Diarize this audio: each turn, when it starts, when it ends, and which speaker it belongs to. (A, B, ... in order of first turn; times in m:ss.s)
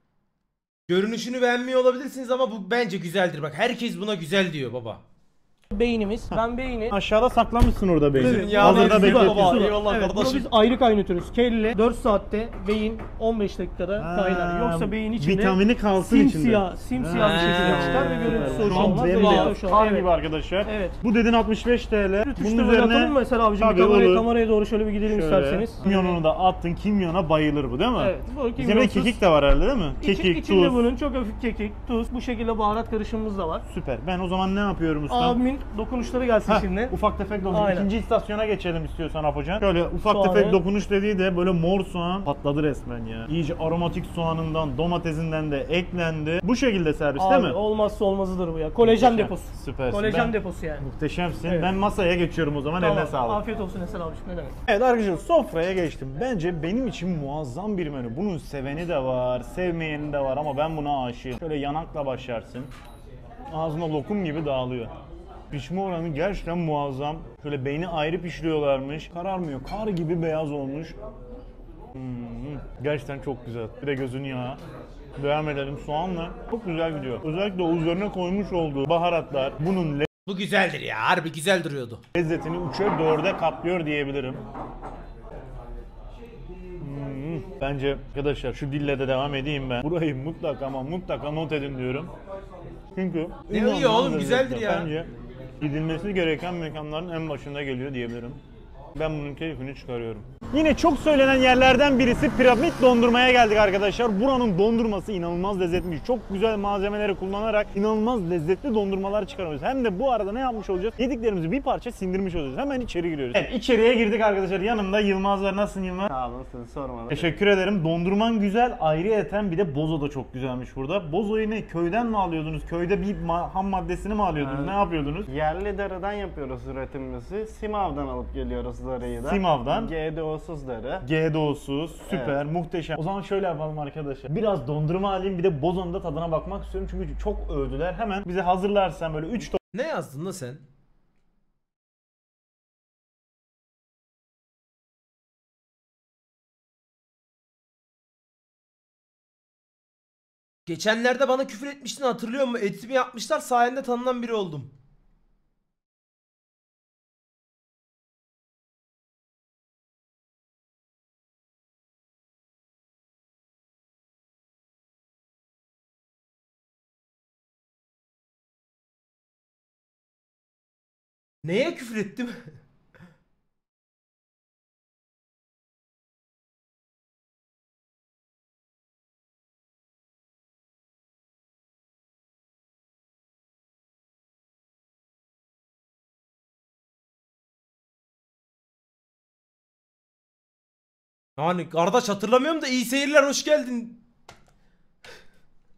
0:00.9-0:05.0 A
0:05.7-0:07.0 B
0:06.3-0:09.8 C
0:08.2-0:10.5 A
0:08.2-0:20.1 B
0:14.0-0:24.3 C
0:17.1-0:19.5 A
0:20.6-0:21.0 B
0:22.2-0:26.2 B
0:25.0-0:30.9 C
0:28.0-0:29.2 B
0:30.0-0:33.6 B
0:33.6-0:35.4 C
0:35.1-0:36.9 B
0:36.4-0:47.6 C
0:37.5-0:37.9 B
0:40.0-0:40.6 B
0:47.2-0:50.8 B
0:48.8-0:53.4 C
0:51.4-0:51.7 B
0:52.8-0:54.6 B
0:54.6-1:02.7 C
1:03.5-1:04.9 C
1:05.5-1:10.9 C
1:11.9-1:14.6 C
1:15.2-1:20.1 C
1:20.3-1:22.0 A
1:22.1-1:24.4 C
1:26.8-1:32.1 C
1:32.9-1:38.4 C
1:33.5-1:34.9 A
1:38.9-1:56.1 C
1:56.1-1:57.4 D
1:57.1-2:05.3 C
2:04.4-2:04.8 D
2:05.3-2:11.0 D
2:09.2-2:09.9 C
2:11.0-2:19.6 C
2:12.1-2:12.4 D
2:19.7-2:20.6 A
2:30.7-2:34.7 A
2:51.4-2:52.4 A
3:11.4-3:14.0 A